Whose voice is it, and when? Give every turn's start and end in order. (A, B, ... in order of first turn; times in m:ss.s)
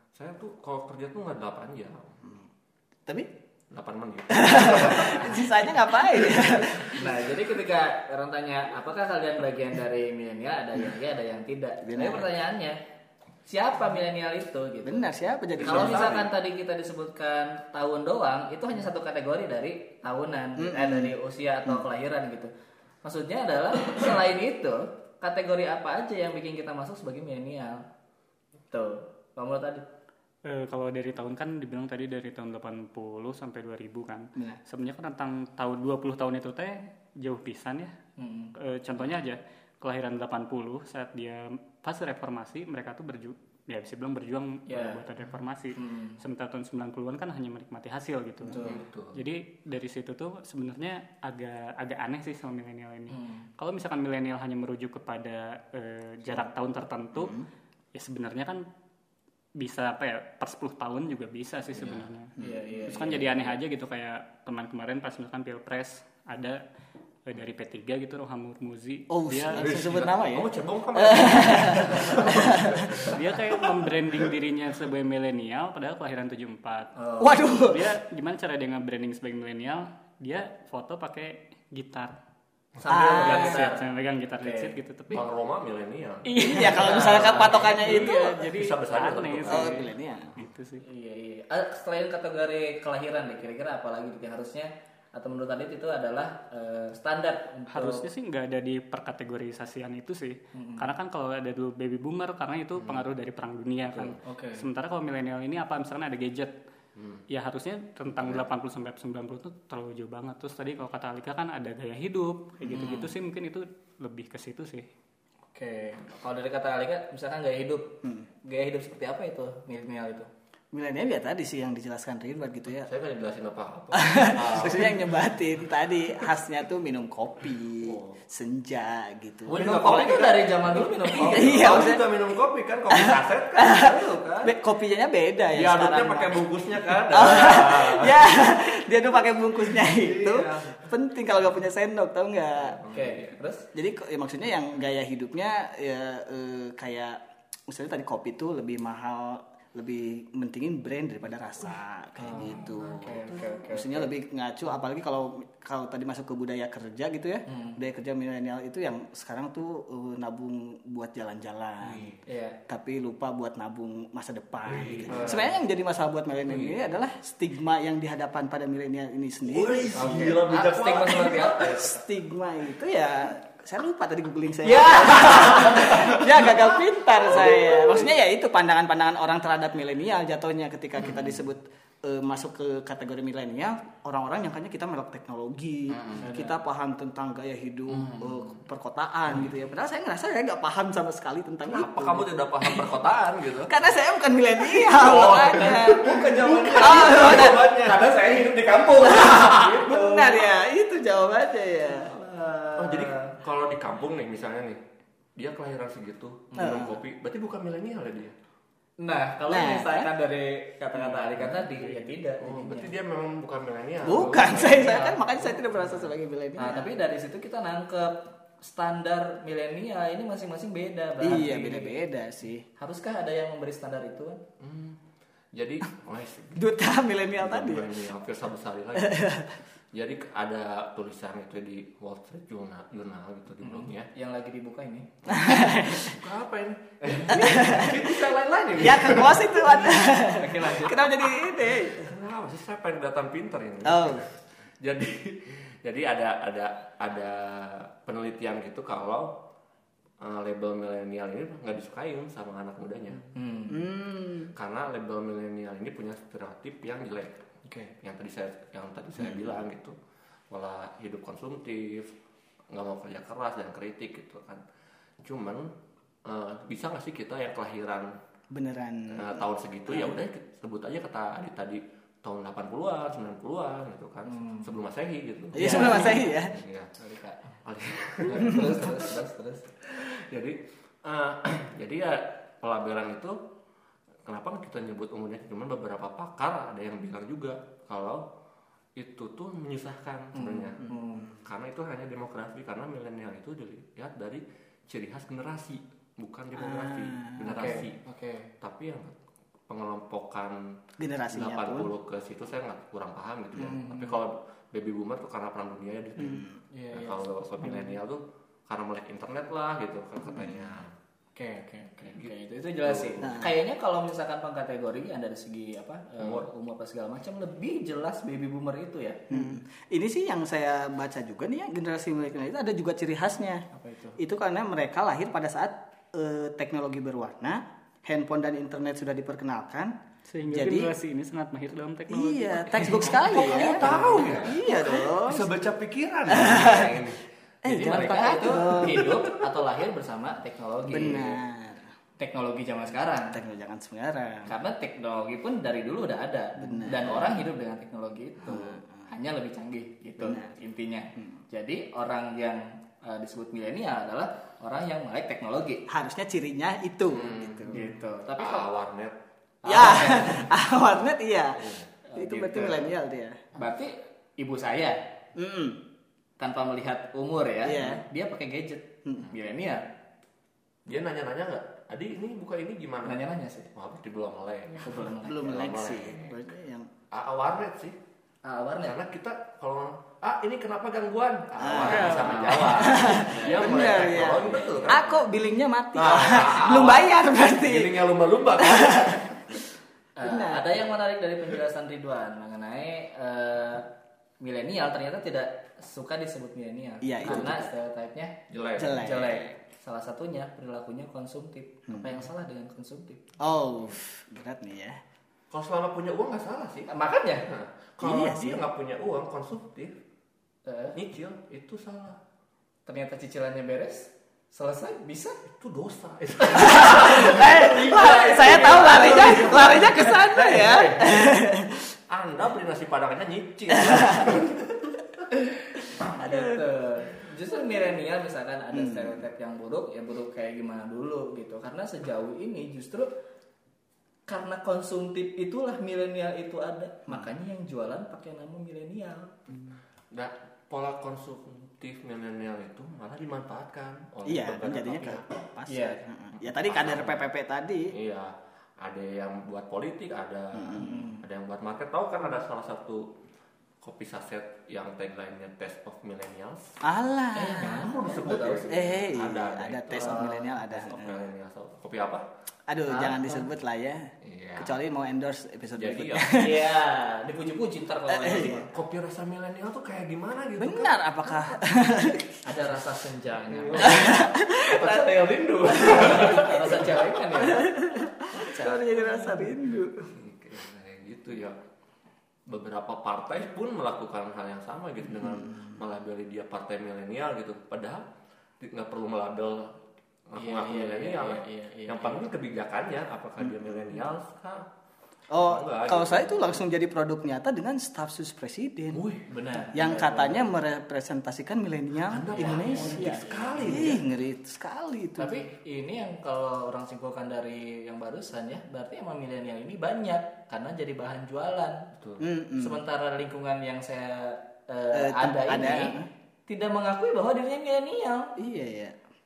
0:00.1-0:02.2 A
0:03.7-0:05.7 A
0:04.3-0:07.0 B
0:06.3-0:12.8 C
0:11.8-0:12.3 B
0:13.4-0:22.5 C
0:14.8-0:16.3 B
0:15.6-0:16.2 A
0:20.6-0:21.1 B
0:23.0-0:27.8 C
0:28.7-0:29.8 C
0:30.4-0:37.9 D
0:38.2-0:38.5 C
0:38.6-0:57.4 D
0:44.6-0:45.0 C
0:45.7-0:46.2 C
0:48.5-0:48.8 C
0:48.6-0:49.2 A
0:53.1-0:53.5 C
0:57.1-0:57.4 B
0:57.9-0:58.6 D
0:59.6-1:02.3 D
1:01.7-1:02.1 A
1:02.4-1:02.9 B
1:02.4-1:03.3 C
1:02.9-1:06.6 D
1:07.2-1:09.7 D
1:09.1-1:13.0 B
1:09.5-1:13.2 A
1:13.0-1:16.9 D
1:17.0-1:17.4 C
1:17.2-1:17.9 B
1:17.6-1:22.1 D
1:22.8-1:23.1 A
1:22.8-1:23.8 C
1:22.9-1:23.7 B
1:23.0-1:25.3 D
1:24.4-1:25.2 C
1:25.1-1:26.3 A
1:26.3-1:28.8 B
1:26.3-1:30.8 D
1:26.7-1:27.9 C
1:26.8-1:29.8 A
1:29.5-1:30.4 B
1:30.8-1:38.0 C
1:37.7-1:46.6 D
1:40.5-1:40.9 C
1:42.8-1:43.1 A
1:43.8-1:44.2 A
1:44.2-1:44.7 C
1:47.0-1:47.2 A
1:47.3-1:54.9 D
1:52.7-1:53.1 C
1:55.5-2:00.3 C
2:00.7-2:02.9 B
2:02.8-2:05.1 A
2:03.9-2:09.8 B
2:07.8-2:08.1 A
2:09.4-2:13.8 A
2:09.5-2:11.9 C
2:11.1-2:12.2 B
2:12.9-2:16.5 B
2:13.7-2:14.5 C
2:15.5-2:18.4 A
2:17.1-2:22.8 B
2:19.9-2:20.8 C
2:22.6-2:23.3 A
2:22.9-2:23.6 C
2:23.7-2:42.1 B
2:32.2-2:34.1 C
2:32.3-2:33.5 A
2:37.5-2:37.8 C
2:42.2-2:42.6 C
2:42.7-2:50.4 B
2:44.6-2:45.5 A
2:45.1-2:45.5 C
2:46.4-2:47.0 A
2:49.4-2:52.0 A
2:49.9-2:51.9 C
2:51.6-3:12.9 B
2:54.6-2:56.6 C
2:55.2-2:56.4 A
2:57.3-2:58.0 A
3:05.9-3:06.6 C
3:08.0-3:08.3 C
3:11.7-3:13.7 A
3:13.6-3:17.6 B
3:14.7-3:18.1 A
3:15.5-3:20.4 C
3:18.9-3:20.0 A
3:19.0-3:22.2 B
3:21.8-3:23.4 C
3:22.8-3:24.8 A
3:25.4-3:28.3 A
3:26.6-3:26.9 C
3:26.6-3:27.0 B
3:29.0-3:32.9 C
3:29.5-3:30.1 B
3:31.0-3:31.6 A
3:32.4-3:35.1 A
3:34.0-3:36.9 B
3:34.4-3:35.9 C
3:36.6-3:42.0 C
3:41.2-3:42.6 B
3:42.8-3:44.4 C
3:44.6-3:45.0 A
3:45.5-3:54.1 A
3:46.6-3:48.0 B
3:49.0-3:49.5 B
3:53.6-3:55.6 C
3:55.3-3:56.2 B
3:55.4-3:59.9 A
3:57.0-3:58.1 C
3:57.3-3:58.0 B
3:58.8-4:02.1 B
3:59.7-4:01.3 C
4:01.4-4:04.3 A
4:03.8-4:04.2 B
4:04.8-4:09.3 A
4:10.2-4:13.3 A
4:13.3-4:13.9 C
4:13.7-4:14.5 B
4:14.5-4:17.4 A
4:17.6-4:17.9 C
4:18.0-4:19.9 A
4:20.5-4:22.1 A
4:22.7-4:24.6 A
4:25.2-4:25.7 A
4:26.2-4:28.1 A
4:28.5-4:29.5 B
4:29.1-4:36.9 A
4:34.3-4:34.7 C
4:35.5-4:36.6 B
4:35.5-4:36.4 C
4:37.0-4:37.6 C
4:37.6-4:39.1 A
4:38.2-4:39.7 C
4:39.8-4:43.4 A
4:44.2-4:48.2 A
4:49.0-4:58.0 A
4:50.3-4:51.3 C
4:56.6-4:57.5 B
4:57.5-4:58.5 C
4:58.6-4:59.1 A
4:59.7-5:00.6 A
5:01.0-5:01.9 B
5:01.3-5:10.9 A
5:03.7-5:04.2 C
5:06.2-5:06.5 B
5:06.7-5:08.0 C
5:10.3-5:10.6 B
5:11.3-5:19.4 C
5:12.0-5:12.3 A
5:12.8-5:13.2 A
5:13.2-5:13.5 B
5:16.2-5:16.5 A
5:19.3-5:23.6 B
5:23.7-5:24.2 C
5:24.2-5:29.9 B
5:30.3-5:34.4 D
5:30.5-5:30.9 B
5:32.1-5:35.5 B
5:32.7-5:37.2 A
5:33.8-5:34.5 C
5:36.3-5:37.1 B
5:37.6-5:39.1 B
5:37.6-5:41.4 C
5:38.8-5:39.2 A
5:40.9-5:41.8 B
5:42.2-5:43.4 C
5:43.3-5:44.5 B
5:44.4-5:55.8 C
5:46.6-5:47.3 B
5:48.4-5:48.8 B
5:50.2-5:50.5 B
5:55.9-5:57.9 B
5:57.1-5:57.8 A
5:57.7-5:58.7 C
5:58.4-5:59.1 A
5:59.6-6:00.5 C
5:59.6-6:03.4 B
5:59.7-6:00.1 A
6:01.6-6:01.9 A
6:02.1-6:03.0 C
6:03.5-6:05.0 C
6:05.4-6:05.8 B
6:06.4-6:09.8 C
6:07.6-6:08.0 B
6:10.8-6:13.2 A
6:13.0-6:13.7 C
6:13.7-6:16.4 A
6:14.8-6:15.7 C
6:15.2-6:16.9 B
6:17.1-6:18.0 A
6:18.4-6:19.0 C
6:18.8-6:25.2 A
6:21.6-6:22.2 B
6:21.8-6:22.9 D
6:21.8-6:25.0 C
6:22.7-6:28.0 B
6:25.9-6:29.2 A
6:28.6-6:29.3 B
6:30.2-6:33.9 C
6:30.2-6:30.7 B
6:34.4-6:43.2 C
6:37.0-6:37.7 B
6:37.2-6:37.5 A
6:38.5-6:39.0 A
6:38.8-6:39.5 B
6:43.4-6:45.0 B
6:45.5-6:46.9 A
6:46.9-6:47.4 C
6:47.4-6:50.0 A
6:48.0-6:48.7 B
6:50.6-6:51.0 C
6:50.9-6:52.2 A
6:52.8-6:55.4 C
6:55.5-6:59.9 A
6:56.4-7:01.2 C
6:56.6-7:01.8 B
7:00.4-7:05.1 A
7:06.0-7:13.1 C
7:08.7-7:09.2 B
7:14.3-7:19.4 C
7:20.1-7:25.2 A
7:24.2-7:27.9 B
7:25.7-7:26.0 C
7:26.5-7:27.2 A
7:27.9-7:33.0 A
7:30.5-7:31.2 B
7:33.8-7:36.6 A
7:36.8-7:38.0 B
7:37.3-7:38.8 C
7:37.9-7:42.2 A
7:38.7-7:41.3 B
7:39.9-7:40.6 C
7:42.7-7:46.8 B
7:42.9-7:43.5 C
7:44.2-7:44.8 A
7:45.8-7:46.2 A
7:46.4-7:48.7 C
7:48.1-7:48.7 B
7:48.5-7:51.6 A
7:50.6-7:52.4 B
7:52.4-7:57.7 C
7:53.5-7:57.0 A
7:53.8-7:54.6 B
7:57.4-8:00.1 B
7:58.3-7:59.5 C
7:58.5-7:58.9 A
8:00.1-8:01.6 A
8:02.5-8:08.0 A
8:08.6-8:09.7 A
8:10.3-8:14.6 A
8:10.4-8:12.3 C
8:15.3-8:19.0 B
8:15.4-8:16.6 A
8:18.9-8:19.3 A
8:19.3-8:20.5 C
8:19.6-8:25.5 B
8:22.1-8:24.0 A
8:22.3-8:24.0 C
8:25.2-8:31.8 C
8:32.0-8:32.2 A
8:32.2-8:32.8 B
8:32.6-8:38.3 C
8:34.9-8:36.1 B
8:38.4-8:39.0 B